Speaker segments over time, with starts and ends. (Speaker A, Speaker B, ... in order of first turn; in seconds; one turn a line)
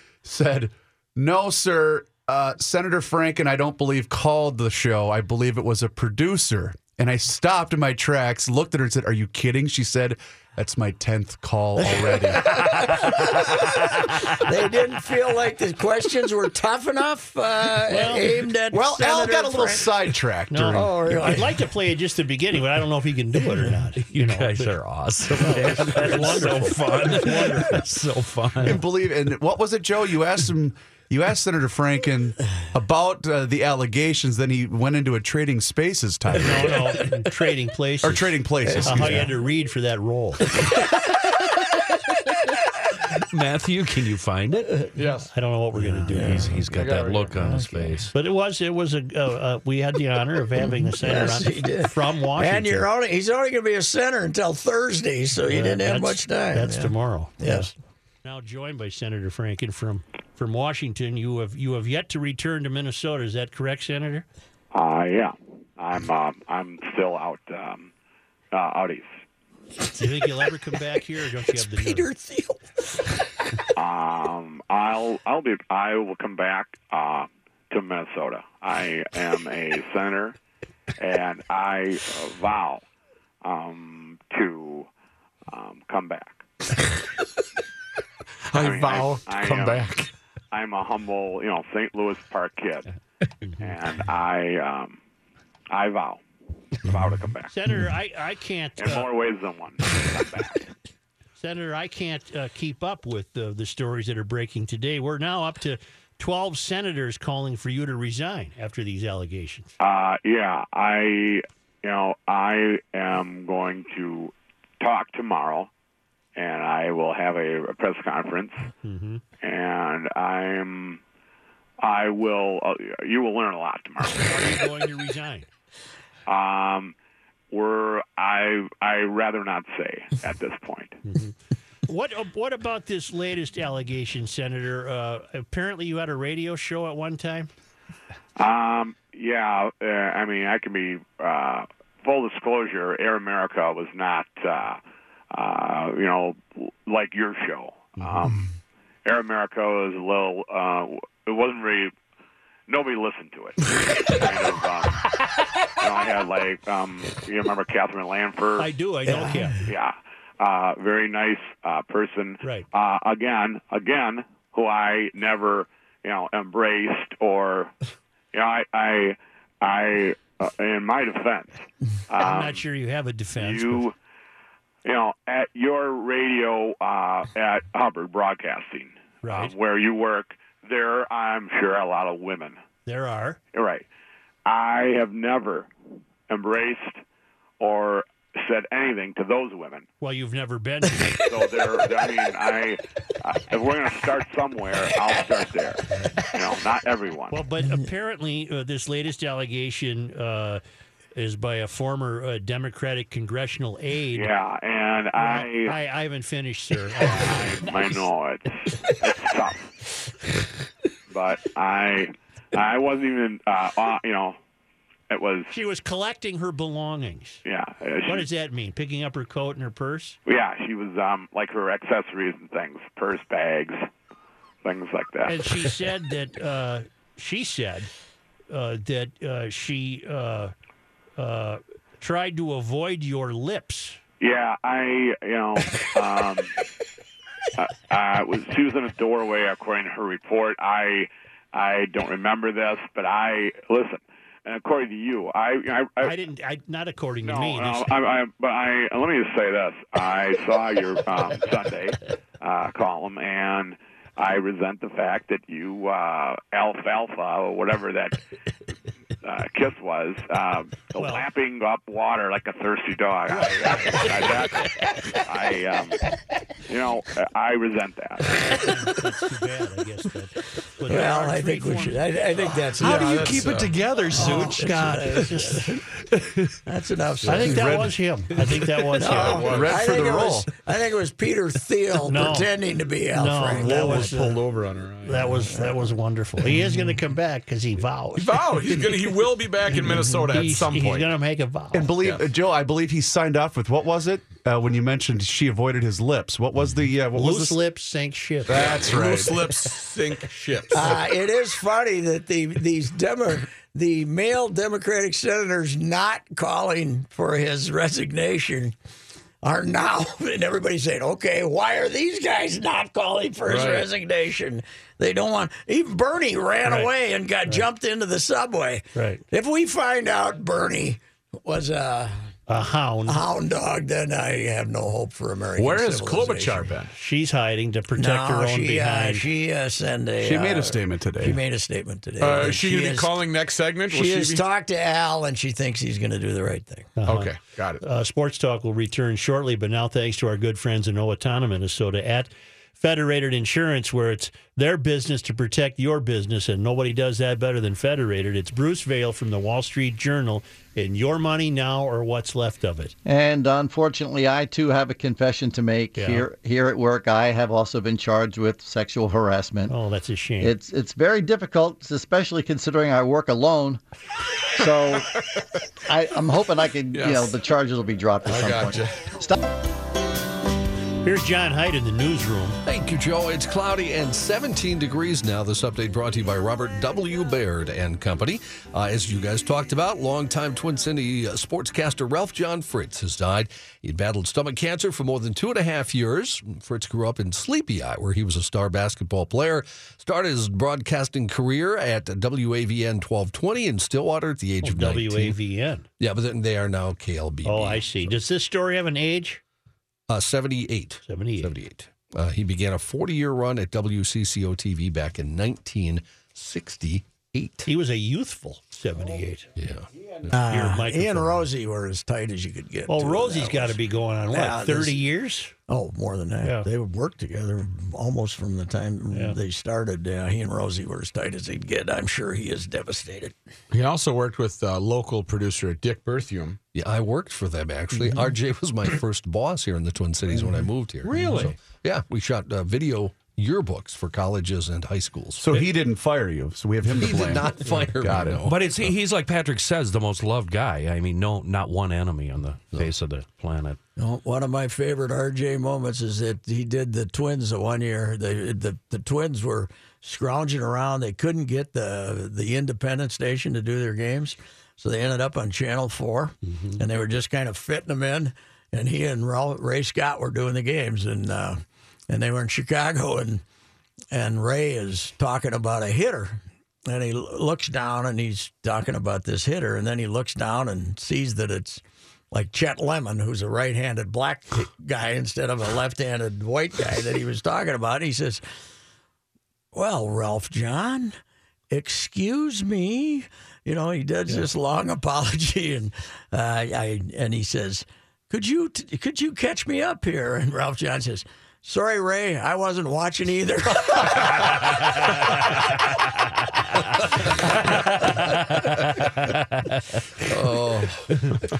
Speaker A: 0.2-13.1
Speaker B: 11.8-19.9
Speaker C: 17.9-18.3
Speaker A: 18.7-21.2
Speaker C: 20.5-27.8
Speaker B: 20.7-21.6
Speaker D: 24.0-28.8
Speaker A: 28.6-37.1
Speaker C: 36.4-40.5
Speaker A: 38.0-39.3
Speaker B: 38.6-39.3
Speaker D: 43.3-44.8
Speaker E: 45.0-45.3
Speaker C: 45.3-46.6
Speaker D: 45.8-48.1
Speaker B: 46.1-48.0
Speaker E: 46.7-47.3
Speaker C: 48.1-52.9
Speaker B: 50.6-57.7
Speaker C: 55.5-57.7
Speaker C: 58.2-64.2
Speaker F: 64.7-67.9
Speaker F: 68.5-69.2
Speaker C: 70.0-72.1
Speaker B: 71.5-73.1
Speaker F: 73.8-80.4
Speaker F: 81.0-82.8
Speaker F: 83.4-84.9
Speaker F: 85.5-86.4
Speaker E: 88.5-90.1
Speaker F: 88.5-90.0
Speaker F: 90.5-92.9
Speaker F: 93.6-95.0
Speaker F: 95.7-96.2
Speaker F: 96.8-97.5
Speaker C: 97.5-99.1
Speaker F: 98.8-100.7
Speaker C: 101.4-109.7
Speaker F: 109.8-115.7
Speaker F: 116.4-118.7
Speaker C: 118.8-119.2
Speaker F: 119.4-121.0
Speaker F: 121.8-124.6
Speaker C: 124.2-125.5
Speaker F: 126.3-126.9
Speaker F: 127.5-131.0
Speaker C: 131.1-131.3
Speaker C: 131.9-137.5
Speaker F: 138.4-144.8
Speaker F: 145.3-148.5
Speaker F: 149.1-151.9
Speaker F: 152.7-155.1
Speaker F: 155.7-158.7
Speaker C: 158.6-159.6
Speaker B: 159.1-159.5
Speaker F: 159.6-167.7
Speaker C: 162.4-162.7
Speaker F: 168.3-172.6
Speaker C: 172.2-173.9
Speaker F: 173.4-173.9
Speaker F: 174.8-182.6
Speaker C: 179.2-179.5
Speaker C: 182.9-183.4
Speaker F: 183.5-183.8
Speaker F: 184.5-185.7
Speaker F: 186.3-187.0
Speaker F: 187.6-189.9
Speaker C: 190.0-191.2
Speaker F: 191.2-197.4
Speaker C: 197.3-200.6
Speaker C: 201.2-204.3
Speaker F: 204.1-205.8
Speaker C: 205.2-207.4
Speaker F: 207.0-209.7
Speaker F: 211.1-214.4
Speaker F: 215.1-215.5
Speaker C: 215.5-217.4
Speaker F: 217.4-218.3
Speaker C: 218.1-220.2
Speaker F: 220.3-223.9
Speaker F: 224.6-225.5
Speaker C: 225.3-227.9
Speaker C: 228.5-230.5
Speaker C: 231.2-234.0
Speaker F: 234.2-236.5
Speaker F: 237.6-246.2
Speaker C: 246.0-247.9
Speaker F: 247.2-258.2
Speaker F: 259.2-266.1
Speaker C: 261.0-261.2
Speaker C: 263.7-264.0
Speaker F: 266.7-268.6
Speaker C: 268.6-272.1
Speaker B: 270.9-273.4
Speaker D: 272.8-275.2
Speaker E: 272.8-273.8
Speaker B: 274.1-275.9
Speaker C: 274.2-275.7
Speaker B: 276.6-277.9
Speaker C: 277.3-279.5
Speaker A: 277.4-277.9
Speaker B: 279.0-284.1
Speaker E: 279.0-280.0
Speaker A: 279.4-280.5
Speaker C: 282.1-282.5
Speaker C: 283.1-284.4
Speaker E: 283.5-285.3
Speaker C: 285.0-288.8
Speaker E: 288.2-291.1
Speaker C: 289.7-291.9
Speaker A: 291.7-297.6
Speaker E: 292.0-292.2
Speaker C: 297.1-298.9
Speaker A: 298.5-299.5
Speaker E: 298.5-301.0
Speaker B: 300.7-308.8
Speaker B: 309.4-322.3
Speaker E: 313.5-313.9
Speaker C: 316.6-316.9
Speaker C: 318.9-319.2
Speaker C: 322.5-323.2
Speaker B: 323.1-326.7
Speaker E: 325.6-326.9
Speaker C: 326.9-329.3
Speaker B: 327.9-333.2
Speaker A: 330.2-331.4
Speaker E: 332.2-334.5
Speaker B: 333.9-336.9
Speaker C: 337.0-352.9
Speaker E: 337.1-337.8
Speaker G: 353.1-359.7
Speaker C: 356.0-356.3
Speaker C: 359.7-360.6
Speaker G: 360.4-363.8
Speaker G: 364.6-365.1
Speaker G: 365.9-369.4
Speaker E: 366.9-367.4
Speaker E: 368.2-369.1
Speaker C: 371.0-372.6
Speaker H: 372.7-395.4
Speaker C: 394.6-395.9
Speaker H: 396.0-398.2
Speaker C: 397.4-399.4
Speaker H: 400.1-407.7
Speaker C: 401.1-401.5
Speaker C: 407.7-409.5
Speaker H: 409.6-409.9
Speaker B: 410.3-413.8
Speaker C: 410.4-411.4
Speaker C: 412.9-415.5
Speaker B: 414.3-415.1
Speaker B: 415.7-423.4
Speaker C: 416.4-416.7
Speaker C: 419.1-419.4
Speaker E: 423.7-426.6
Speaker H: 426.7-435.7
Speaker D: 431.1-431.5
Speaker A: 435.4-438.5
Speaker H: 436.9-438.7
Speaker D: 438.4-443.8
Speaker B: 444.0-463.4
Speaker B: 464.1-478.4
Speaker B: 479.7-481.1
Speaker B: 481.7-494.7
Speaker H: 500.3-501.4